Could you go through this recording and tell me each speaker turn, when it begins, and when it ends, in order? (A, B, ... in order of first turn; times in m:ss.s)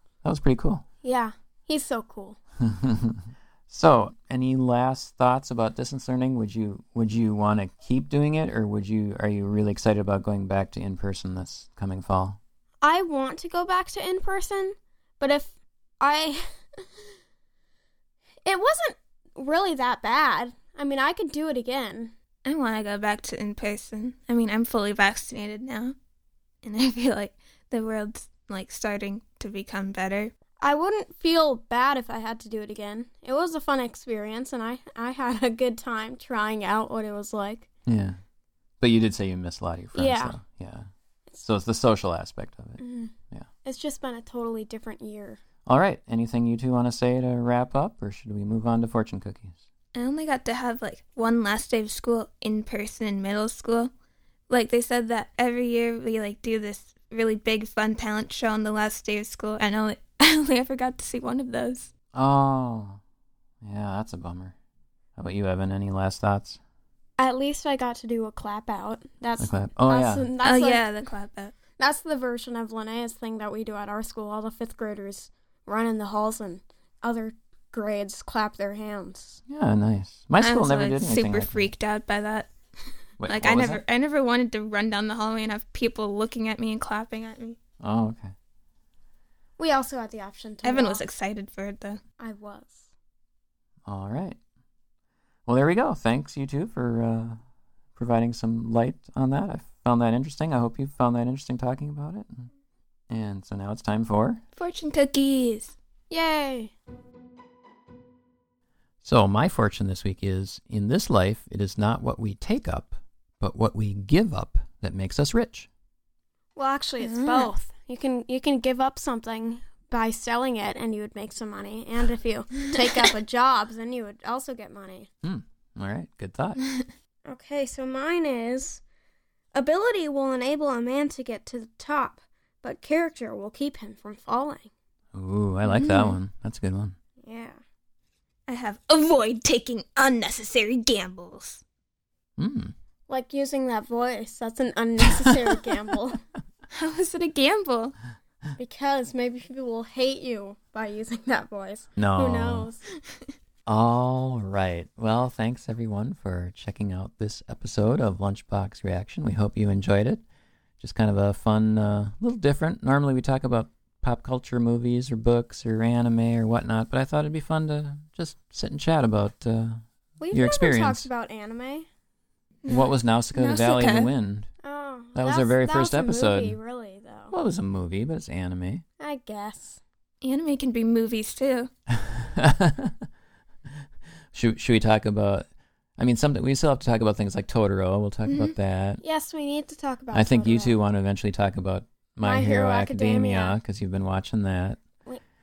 0:00.2-0:00.8 A
0:01.0-0:02.4 B
0:02.6-0:12.4 A
0:12.8-0:16.5 B
0:18.4-0:22.1 B
0:22.4-0:25.9 C
0:26.6-0:30.3 C
0:30.6-0:37.7 B
0:37.9-0:38.2 A
0:38.8-0:40.9 A
0:39.9-0:40.4 B
0:41.4-0:42.8 A
0:42.8-0:43.1 B
0:43.6-0:45.4 B
0:45.6-0:49.6 A
0:49.9-0:53.9 C
0:54.5-1:01.9 C
1:02.1-1:03.0 A
1:03.6-1:04.5 A
1:05.2-1:06.6 A
1:07.2-1:10.9 B
1:09.4-1:10.3 A
1:10.4-1:11.5 C
1:11.8-1:19.4 B
1:19.5-1:21.7 A
1:20.4-1:22.5 C
1:23.2-1:23.8 A
1:23.2-1:27.6 C
1:27.8-1:28.3 A
1:29.6-1:31.0 B
1:30.6-1:32.0 C
1:32.2-1:32.9 B
1:33.8-1:34.4 A
1:35.5-1:37.4 A
1:38.0-1:42.5 A
1:43.1-1:44.4 A
1:44.5-1:45.8 C
1:46.1-1:46.7 B
1:49.0-1:55.7 A
1:56.6-2:05.1 B
1:57.0-1:57.5 C
2:05.2-2:06.6 A
2:07.2-2:08.8 B
2:09.5-2:14.7 B
2:15.1-2:17.0 A
2:15.7-2:16.2 B
2:17.2-2:17.6 B
2:18.5-2:21.6 C
2:22.4-2:22.7 A
2:23.1-2:26.2 B
2:26.7-2:27.9 C
2:28.6-2:32.8 B
2:32.0-2:32.7 A
2:33.6-2:40.2 A
2:40.8-2:51.1 A
2:50.2-2:51.8 B
2:52.6-2:54.1 C
2:52.7-2:54.5 A
2:54.6-2:57.3 B
2:55.1-2:56.6 A
2:57.3-2:58.8 A
2:59.0-2:59.8 B
3:00.2-3:01.7 C
3:01.9-3:03.1 A
3:04.3-3:05.5 A
3:06.0-3:09.0 A
3:08.3-3:08.5 C
3:09.0-3:10.8 B
3:10.1-3:14.8 A
3:12.2-3:13.6 B